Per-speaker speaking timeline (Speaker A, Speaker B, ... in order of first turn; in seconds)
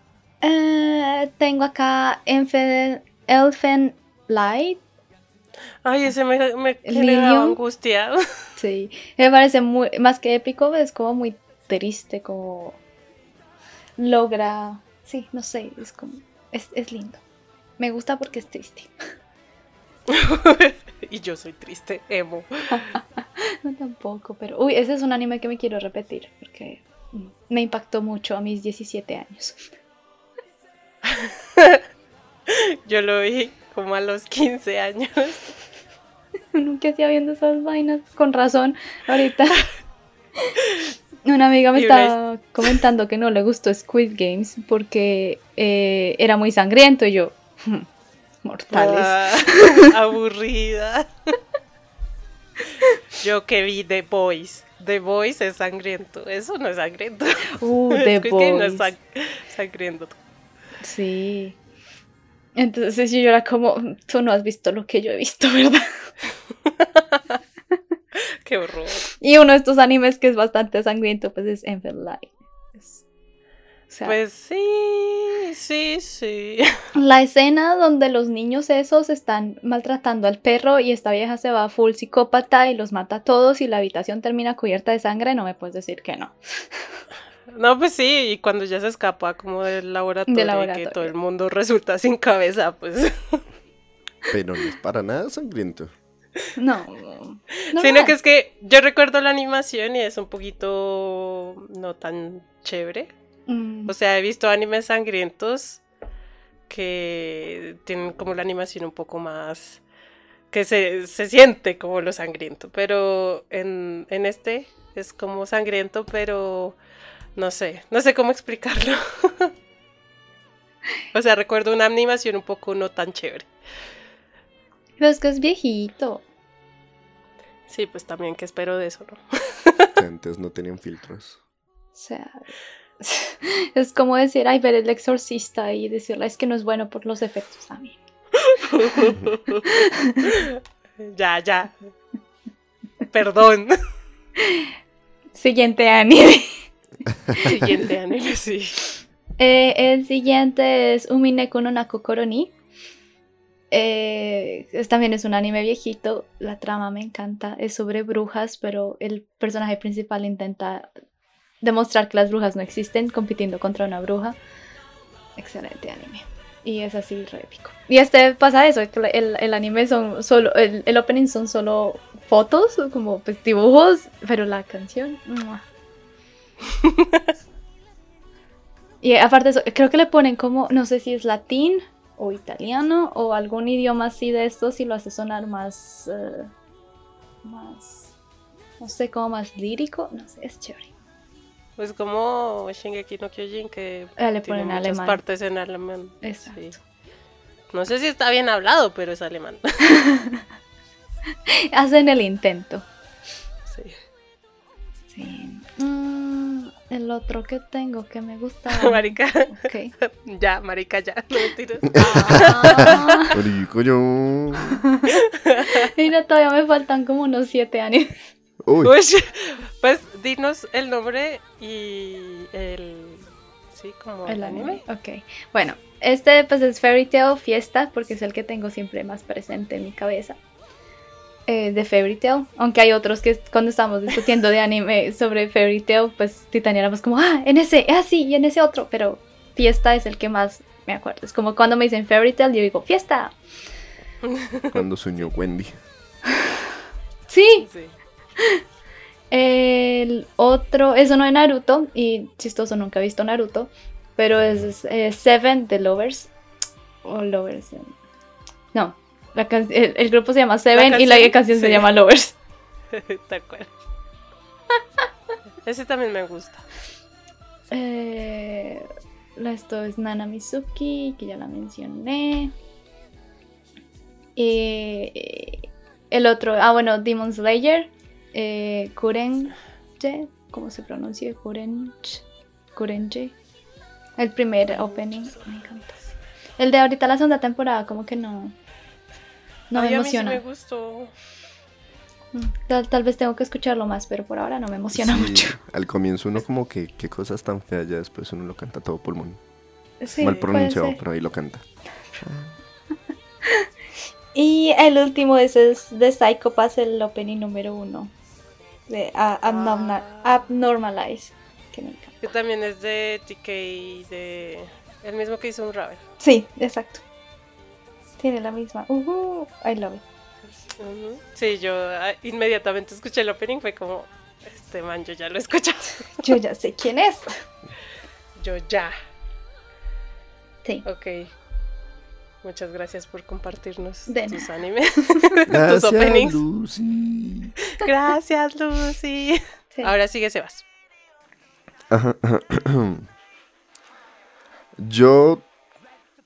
Speaker A: 0.4-4.8, 6.8-7.6, 8.6-12.8, 14.0-17.2, 17.8-18.9, 23.4-29.7, 36.5-39.6, 41.2-47.9, 48.4-49.9, 57.5-58.9, 60.8-61.6, 62.6-65.9, 69.2-73.0, 73.9-74.2, 76.9-87.0, 90.3-91.1, 96.6-98.1, 103.5-103.9, 125.0-126.2, 131.9-132.4, 133.0-138.0, 139.7-140.3, 144.4-144.7, 145.3-146.6, 149.4-152.5, 153.7-160.9, 161.6-164.4, 165.4-175.6, 179.0-186.5, 187.4-188.1, 188.8-190.9, 194.2-195.2, 196.2-196.8, 199.9-200.4, 201.5-202.9, 205.1-209.9, 211.9-213.3, 214.8-215.1, 215.6-218.1, 224.3-230.4, 231.5-243.3, 247.3-247.7, 249.3-256.3, 257.0-257.9, 258.7-262.4, 267.7-272.5, 274.4-282.2, 282.7-283.4, 284.2-285.9, 286.6-288.6, 289.7-290.4, 292.3-295.6, 300.0-301.0, 304.4-308.1, 308.9-312.2, 316.2-317.0, 318.2-320.0, 326.2-327.4, 334.1-334.5, 335.1-335.4
Speaker B: 5.8-8.2, 20.1-22.8, 31.0-31.8, 32.5-35.5, 41.7-42.1, 48.7-51.1, 53.2-60.2, 66.8-67.2, 68.4-69.1, 74.0-76.7, 87.5-93.4, 97.7-103.1, 103.9-105.8, 106.7-109.8, 110.5-116.8, 117.4-119.5, 121.1-123.5, 127.7-129.9, 138.4-141.9, 143.1-143.8, 147.4-148.9, 176.7-177.2, 191.8-196.8, 197.7-199.9, 203.7-203.9, 208.7-213.3, 215.1-215.9, 218.8-224.8, 244.2-245.3, 247.6-247.9, 260.7-261.9, 262.9-263.7, 265.6-266.6, 284.7-286.1, 289.7-291.1, 309.4-310.5, 312.2-316.0, 320.8-326.3, 328.4-328.9, 330.9-331.3, 332.4-336.4, 337.7-340.6
Speaker C: 94.3-95.9, 129.9-131.4, 212.0-214.8, 218.6-218.9, 244.7-245.8, 294.9-299.4, 300.2-301.6, 302.2-302.6, 335.5-337.5, 341.9-343.1, 344.8-345.4